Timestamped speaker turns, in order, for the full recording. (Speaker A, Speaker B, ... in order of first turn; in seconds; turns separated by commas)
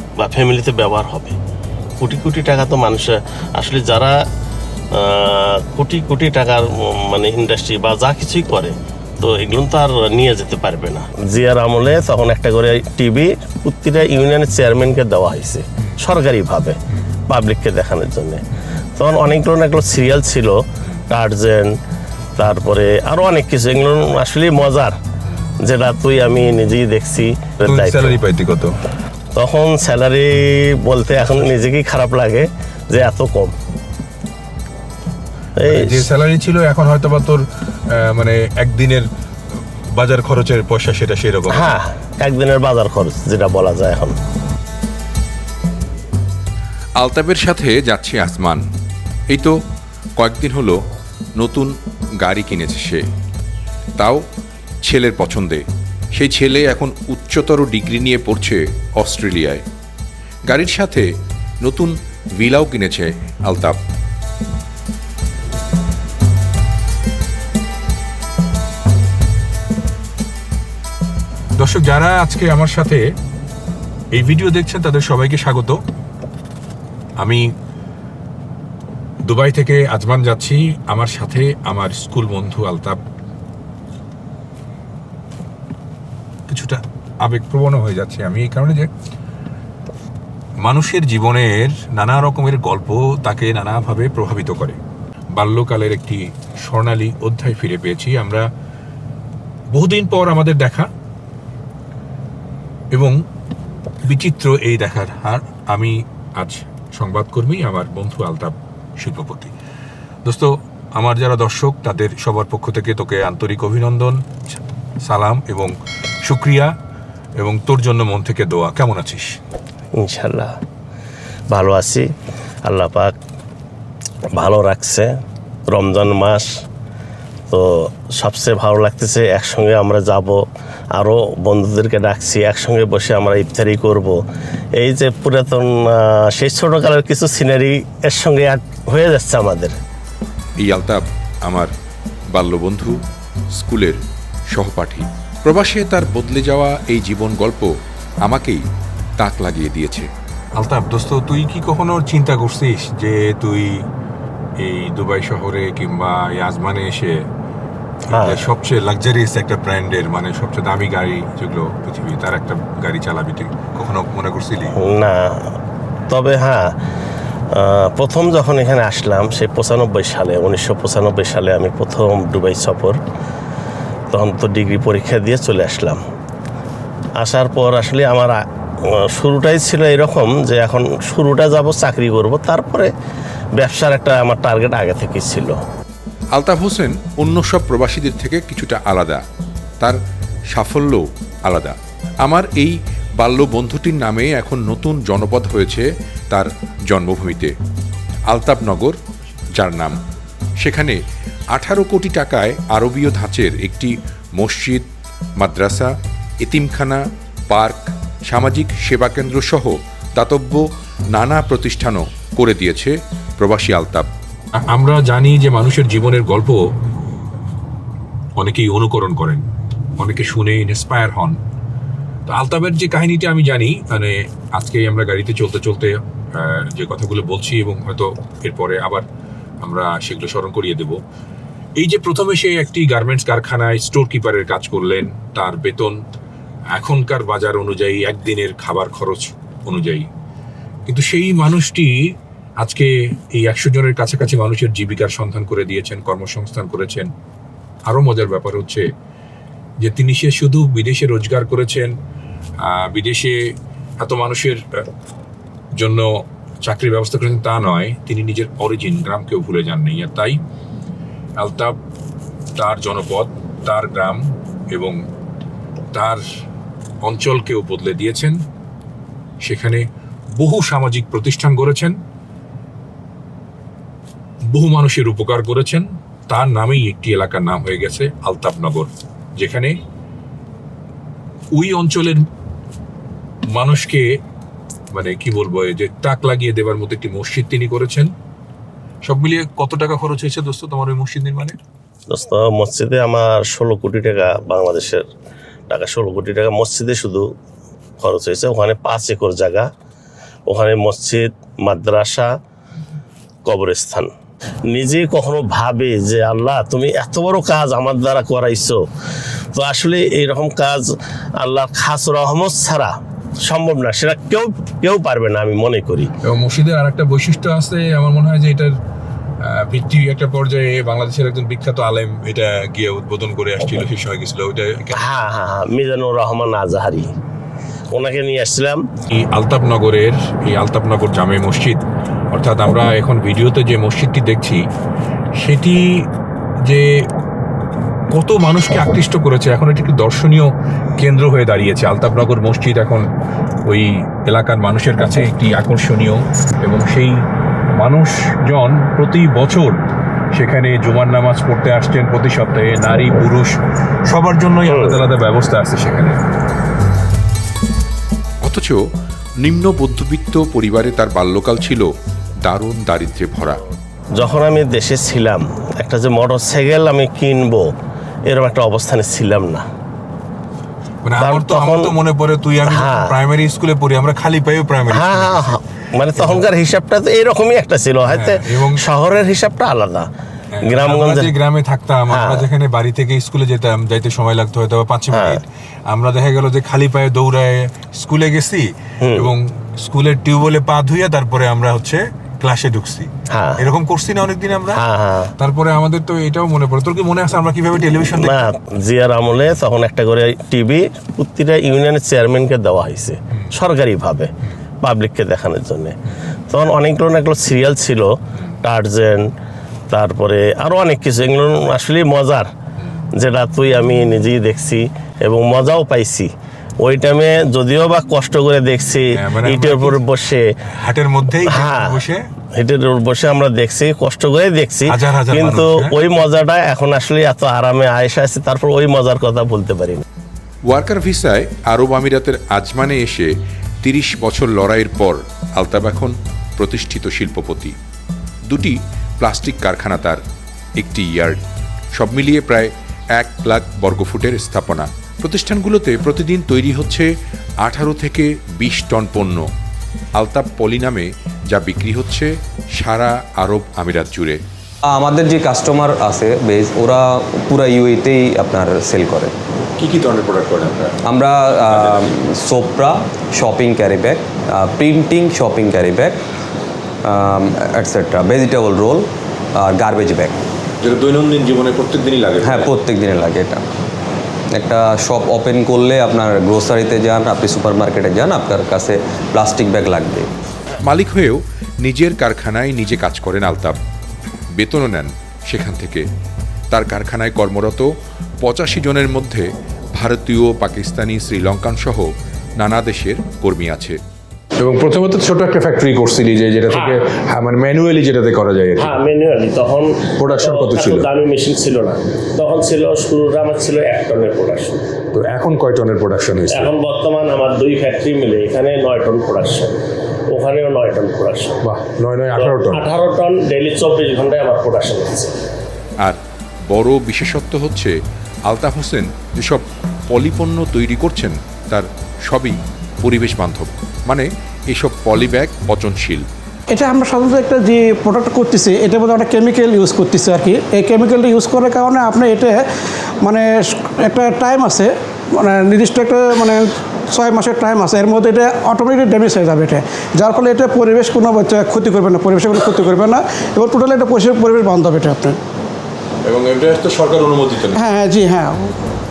Speaker A: 0.2-1.3, Speaker A: 2.0-4.1, Speaker A: 5.0-18.4, Speaker A: 19.0-21.8, Speaker A: 22.4-24.9, Speaker A: 25.6-28.2, Speaker B: 27.7-28.7, Speaker A: 29.4-33.5, Speaker A: 35.6-36.1, Speaker B: 35.7-37.4, Speaker B: 38.1-39.0, Speaker B: 40.0-41.7, Speaker A: 41.5-44.1, Speaker C: 47.0-48.6, Speaker C: 50.2-50.8, Speaker C: 51.4-53.0, Speaker C: 54.9-55.6, Speaker C: 56.1-59.6, Speaker C: 60.5-61.0, Speaker C: 61.6-63.8, Speaker B: 71.6-73.0, Speaker B: 74.1-75.8, Speaker B: 79.3-83.0, Speaker B: 86.5-88.9, Speaker B: 90.6-94.8, Speaker B: 95.3-98.5, Speaker B: 99.7-100.9, Speaker B: 104.1-109.5, Speaker B: 110.2-114.2, Speaker B: 115.0-115.7, Speaker B: 116.2-116.7, Speaker B: 117.4-119.4, Speaker A: 120.0-120.5, Speaker A: 121.5-122.1, Speaker A: 122.7-123.1, Speaker A: 124.3-125.1, Speaker A: 125.7-126.5, Speaker A: 127.5-134.2, Speaker A: 134.8-139.8, Speaker C: 140.6-141.7, Speaker C: 142.3-143.0, Speaker C: 143.5-144.0, Speaker C: 144.5-147.7, Speaker C: 148.2-148.6, Speaker C: 149.2-150.1, Speaker B: 150.6-153.7, Speaker B: 154.6-157.1, Speaker A: 158.1-158.4, Speaker B: 158.2-164.7, Speaker A: 164.8-165.5, Speaker A: 166.1-166.8, Speaker A: 167.5-173.0, Speaker A: 174.1-176.0, Speaker A: 177.2-178.4, Speaker A: 178.9-182.9, Speaker A: 183.6-185.6, Speaker C: 186.3-189.2, Speaker C: 190.5-197.5, Speaker C: 198.3-198.9, Speaker C: 199.5-200.0, Speaker C: 200.6-201.0, Speaker C: 201.5-204.8, Speaker C: 205.4-205.9, Speaker C: 206.4-210.6, Speaker C: 211.1-214.1, Speaker B: 214.8-216.5, Speaker B: 218.4-219.4, Speaker B: 220.0-221.3, Speaker B: 222.3-229.0, Speaker B: 229.6-231.0, Speaker B: 231.8-235.9, Speaker B: 236.8-240.1, Speaker B: 240.9-241.9, Speaker B: 242.6-247.1, Speaker B: 247.9-248.8, Speaker B: 249.8-251.9, Speaker B: 252.7-253.3, Speaker B: 254.0-254.8, Speaker B: 255.8-256.1, Speaker B: 256.6-260.4, Speaker B: 261.4-261.7, Speaker B: 262.6-264.2, Speaker B: 265.9-266.2, Speaker B: 267.0-268.4, Speaker B: 269.4-269.8, Speaker B: 270.4-271.9, Speaker B: 274.5-279.7, Speaker B: 281.5-282.2, Speaker B: 283.5-284.0, Speaker B: 284.9-288.1, Speaker B: 289.0-291.6, Speaker A: 292.1-295.1, Speaker A: 295.7-297.3, Speaker A: 298.0-299.7, Speaker A: 300.5-302.3, Speaker A: 303.4-304.1, Speaker A: 304.7-308.8, Speaker A: 309.5-316.1, Speaker B: 316.2-318.7, Speaker B: 319.5-325.0, Speaker A: 324.9-327.1, Speaker A: 327.9-328.9, Speaker B: 329.1-331.8, Speaker B: 332.3-334.6, Speaker B: 335.4-335.9, Speaker B: 336.6-337.0, Speaker B: 338.1-343.0, Speaker B: 343.7-347.1, Speaker B: 347.8-349.7, Speaker B: 350.4-353.5, Speaker B: 354.1-356.1, Speaker A: 354.7-355.0, Speaker C: 358.4-358.8, Speaker C: 359.4-361.9, Speaker C: 362.4-363.6, Speaker A: 364.1-367.7, Speaker A: 368.3-369.6, Speaker B: 371.0-375.5, Speaker A: 371.2-371.9, Speaker A: 372.6-373.1, Speaker A: 374.9-380.1, Speaker B: 378.1-378.8, Speaker B: 380.6-385.4, Speaker A: 380.6-381.3, Speaker A: 382.1-382.5, Speaker A: 385.1-385.4, Speaker B: 385.9-388.6, Speaker A: 389.0-389.3, Speaker B: 389.2-394.8, Speaker A: 393.3-393.6, Speaker A: 394.7-395.3, Speaker B: 395.4-398.4, Speaker A: 398.1-404.3, Speaker A: 404.8-405.9, Speaker A: 406.5-409.3, Speaker A: 409.9-412.5, Speaker A: 413.1-416.3, Speaker A: 416.8-420.5, Speaker B: 419.3-420.0, Speaker B: 420.8-422.2, Speaker A: 421.4-422.0, Speaker A: 422.6-430.0, Speaker B: 424.9-425.9, Speaker C: 430.7-433.3, Speaker C: 433.8-437.7, Speaker C: 438.5-440.2, Speaker C: 440.8-441.4, Speaker C: 441.9-447.1, Speaker C: 447.6-449.5, Speaker C: 450.2-454.4, Speaker D: 454.9-459.3, Speaker C: 459.8-460.9, Speaker B: 460.2-460.9, Speaker D: 461.0-466.2, Speaker B: 461.8-462.1, Speaker D: 467.0-470.4, Speaker B: 470.8-472.7, Speaker D: 472.4-473.6, Speaker D: 474.5-480.3, Speaker C: 480.8-483.8, Speaker C: 484.5-486.1, Speaker C: 486.7-487.9, Speaker C: 488.4-492.1, Speaker C: 492.6-494.0, Speaker B: 494.6-498.9, Speaker A: 496.7-497.0, Speaker A: 498.8-504.9, Speaker B: 500.2-501.0, Speaker B: 505.1-506.7, Speaker A: 506.5-509.8, Speaker A: 510.3-511.6, Speaker B: 511.7-512.8, Speaker A: 512.4-515.3, Speaker C: 516.0-517.9, Speaker C: 518.5-526.2, Speaker E: 526.7-532.6, Speaker E: 533.2-545.4, Speaker C: 546.3-546.6, Speaker B: 546.7-547.8, Speaker E: 547.7-548.8